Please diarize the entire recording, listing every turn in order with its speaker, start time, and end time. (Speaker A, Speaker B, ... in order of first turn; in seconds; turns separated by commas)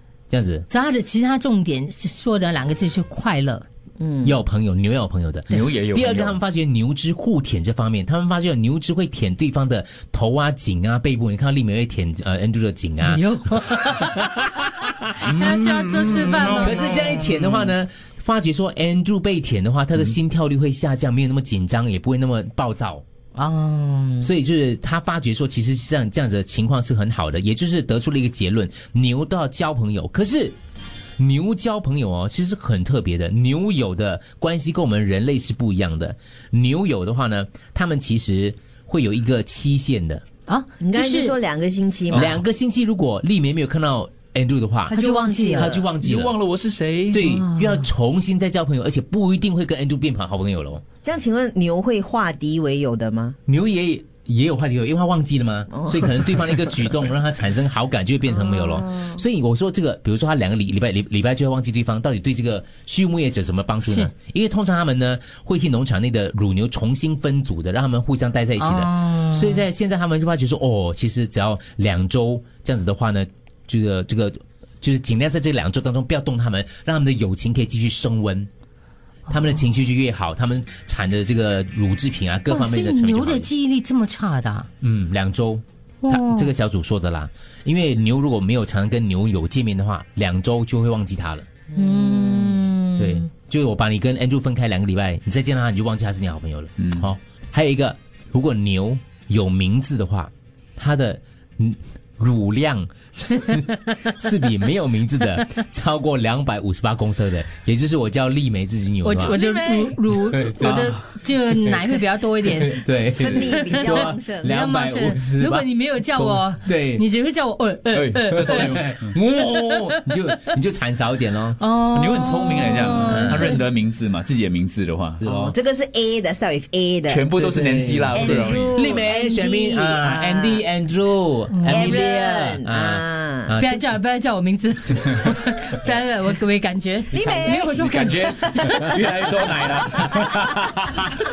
Speaker A: 0.3-0.7, Speaker B: 0.7-3.6, Speaker C: 4.0-4.4, Speaker A: 4.2-15.1, Speaker D: 5.5-6.4, Speaker B: 13.0-14.2, Speaker B: 15.2-17.1, Speaker D: 15.4-16.6, Speaker A: 16.5-23.0, Speaker B: 23.4-24.3, Speaker A: 24.2-30.6, Speaker A: 31.2-40.2, Speaker B: 40.5-41.4, Speaker C: 40.8-42.3, Speaker A: 42.1-45.0, Speaker C: 44.9-45.9, Speaker B: 44.9-45.7, Speaker A: 45.5-46.3, Speaker D: 46.0-47.2, Speaker A: 47.1-50.8, Speaker B: 47.2-47.9, Speaker C: 51.0-53.4, Speaker A: 53.5-78.5, Speaker C: 55.7-56.1, Speaker C: 58.3-59.2, Speaker B: 68.6-69.6, Speaker A: 79.3-83.5, Speaker B: 82.5-84.7, Speaker A: 84.8-91.5, Speaker B: 86.0-86.5, Speaker C: 91.7-92.6, Speaker B: 91.8-93.3, Speaker A: 93.0-109.4, Speaker B: 109.0-118.8, Speaker C: 109.4-110.0, Speaker A: 110.2-111.0, Speaker D: 110.6-111.0, Speaker A: 112.4-117.0, Speaker C: 113.1-114.5, Speaker D: 117.9-119.1, Speaker A: 118.3-121.6, Speaker B: 119.5-120.2, Speaker B: 121.6-123.6, Speaker D: 121.8-125.2, Speaker A: 123.0-123.6, Speaker A: 125.2-125.5, Speaker C: 125.2-130.6, Speaker D: 127.1-128.8, Speaker A: 128.2-133.8, Speaker B: 131.5-132.1, Speaker C: 131.6-133.5, Speaker B: 133.6-139.1, Speaker C: 137.1-138.3, Speaker D: 137.5-140.8, Speaker A: 139.2-140.3